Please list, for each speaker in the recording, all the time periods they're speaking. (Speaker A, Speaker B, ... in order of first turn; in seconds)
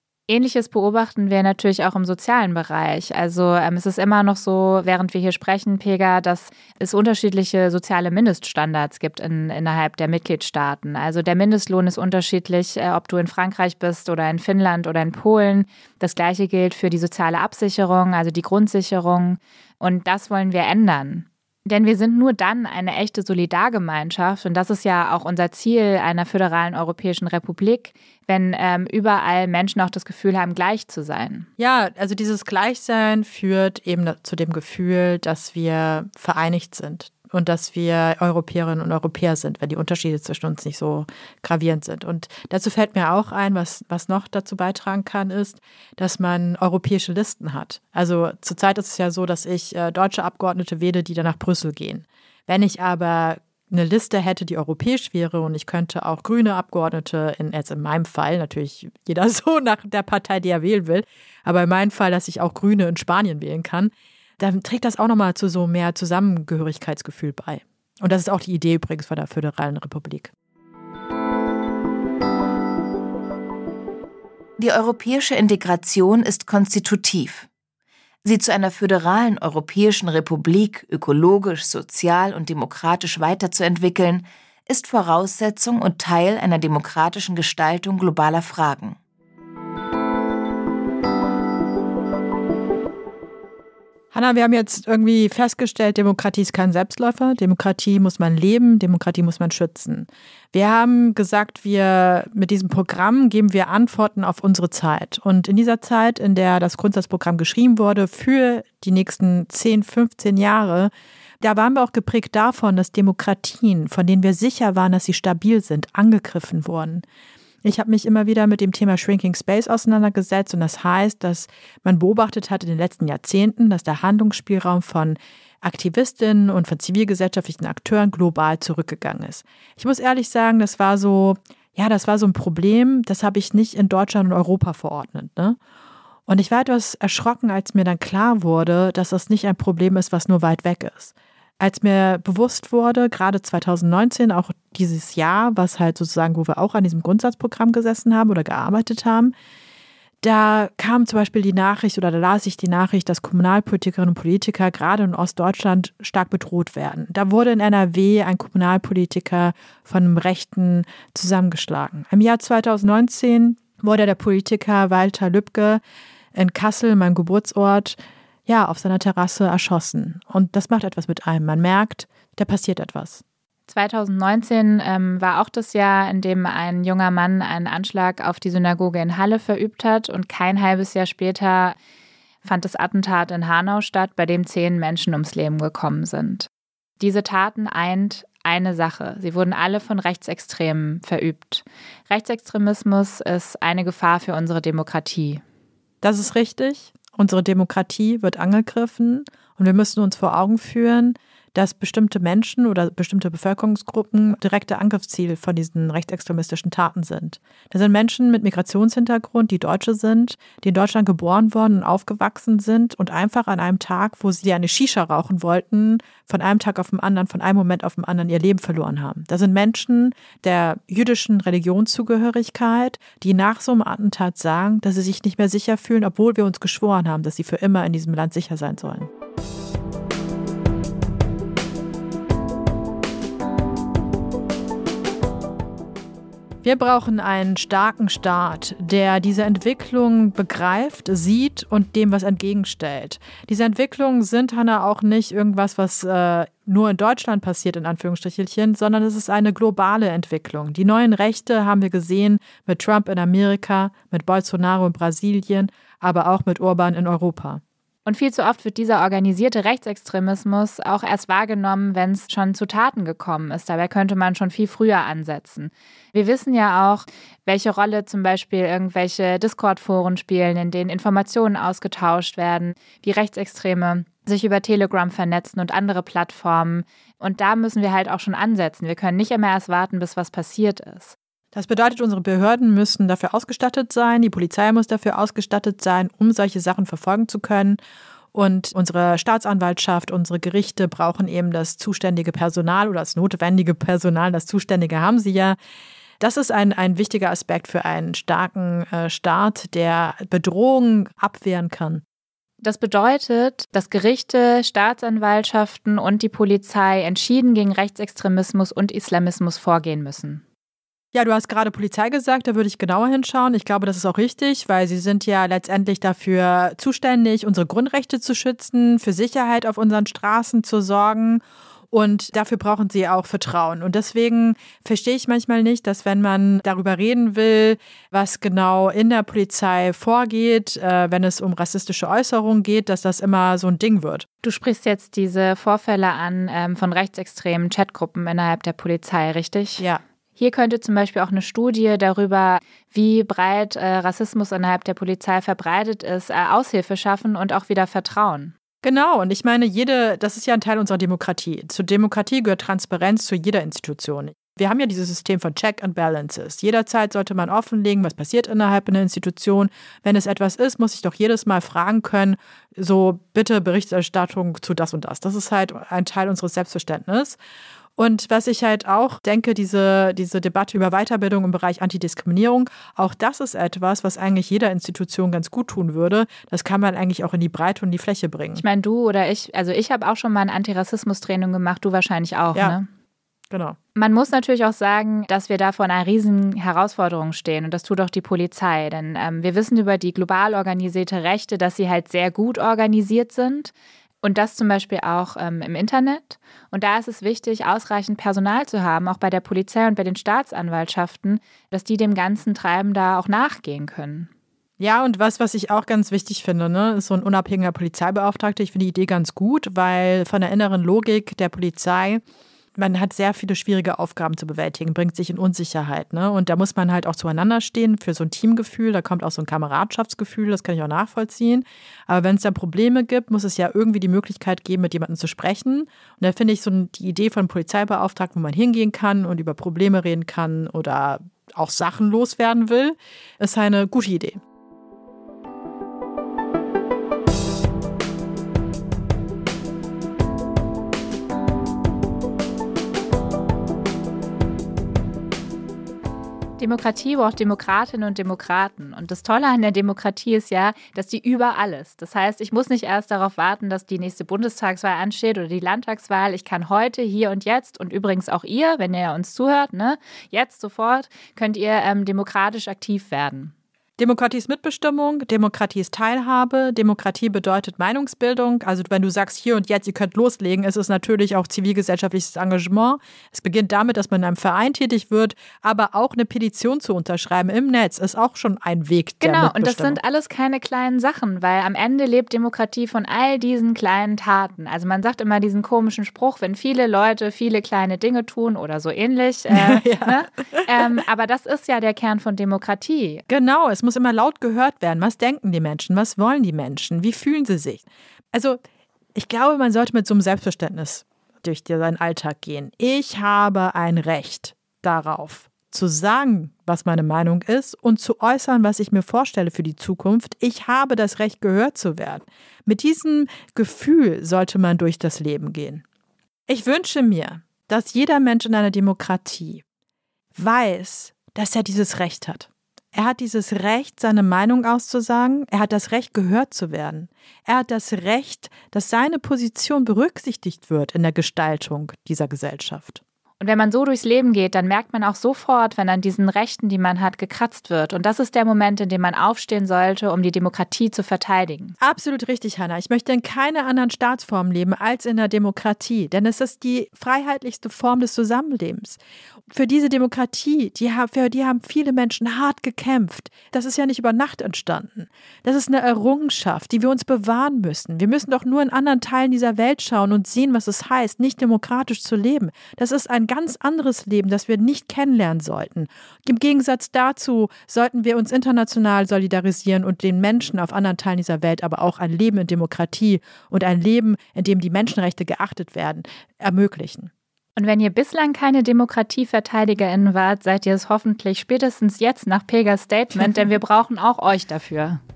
Speaker A: 0.3-31.5, 173.7-181.8, 182.4-186.5, 187.0-195.4, 258.1-281.1, 302.6-310.4, 334.4-339.9, 340.4-348.5, 378.6-382.9, 384.0-404.3, 446.6-463.5, 479.2-493.2, 533.4-541.8, 577.6-585.0
Speaker B: 31.6-70.3, 94.1-117.0, 117.6-135.6, 136.3-149.3, 150.2-165.8, 166.3-173.2, 196.0-229.1, 236.6-257.6, 281.5-287.8, 288.3-295.6, 296.2-302.0, 311.1-334.3, 348.8-367.4, 368.0-378.6, 383.5-383.8, 404.8-412.2, 412.8-434.4, 464.0-480.0, 489.5-491.0, 493.3-498.6, 499.1-515.8, 516.5-519.6, 520.4-533.0, 541.8-577.1
Speaker C: 74.6-77.5, 78.2-89.0